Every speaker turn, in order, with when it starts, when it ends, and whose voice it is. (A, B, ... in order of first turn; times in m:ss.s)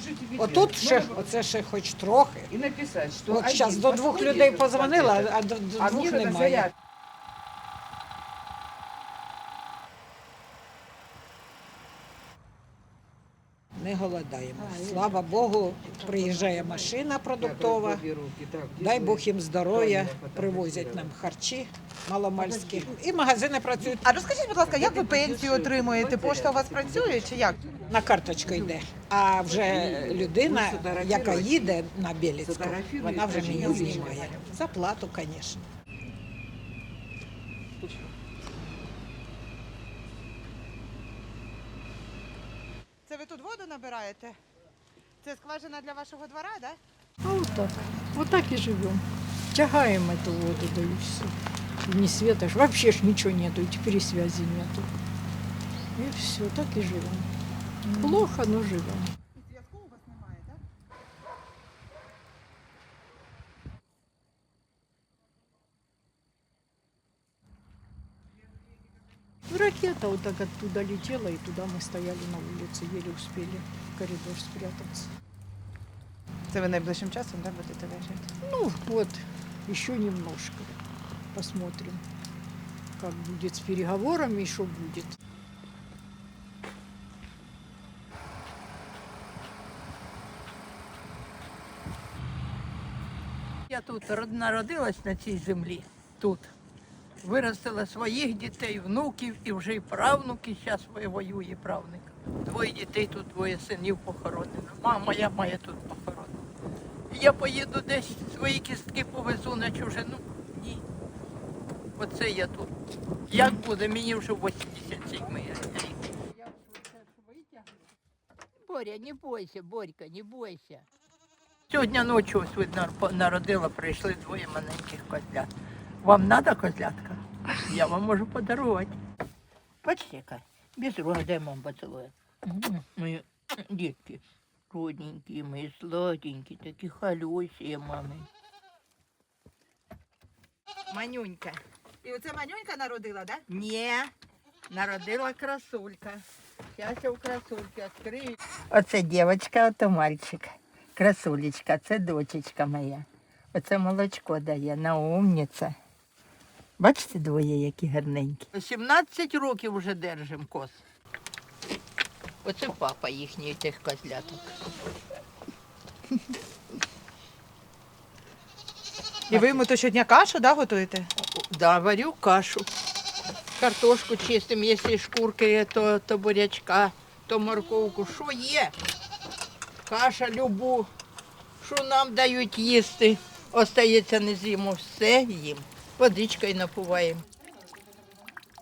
0:00.3-0:02.5 A
0:02.8-0:03.4 B
0:03.2-0:06.7 A
0:13.8-0:18.1 A
0:18.2-0:19.0 B
0:18.7-0:24.1 A
0:20.2-0:20.9 B
0:24.0-0:27.8 C
0:24.8-0:27.9 B
0:27.9-0:35.7 A
0:30.7-0:31.4 B
0:32.9-0:34.2 B
0:43.1-0:44.4 C
0:45.2-0:46.8 C
0:47.2-0:54.9 D
0:55.9-0:57.3 D
0:57.8-0:59.1 D
0:59.3-1:00.6 C
1:09.5-1:15.1 D
1:16.5-1:18.2 C
1:18.4-1:20.7 D
1:21.3-1:22.0 D
1:23.0-1:25.2 D
1:33.7-1:36.5 E
1:37.2-1:46.4 E
1:47.1-1:50.8 E
1:52.0-1:52.7 E
1:53.3-1:57.8 E
1:58.6-2:00.8 E
2:01.7-2:05.5 E
2:06.0-2:09.0 E
2:09.8-2:18.3 E
2:20.9-2:21.6 E
2:22.0-2:23.4 C
2:23.5-2:24.1 E
2:24.7-2:35.8 E
2:36.8-2:40.8 E
2:42.4-2:44.4 E
2:49.3-2:49.6 E
2:49.3-2:51.1 C
2:51.2-2:52.7 E
2:53.6-2:58.7 E
2:59.8-3:00.9 E
3:01.6-3:07.2 E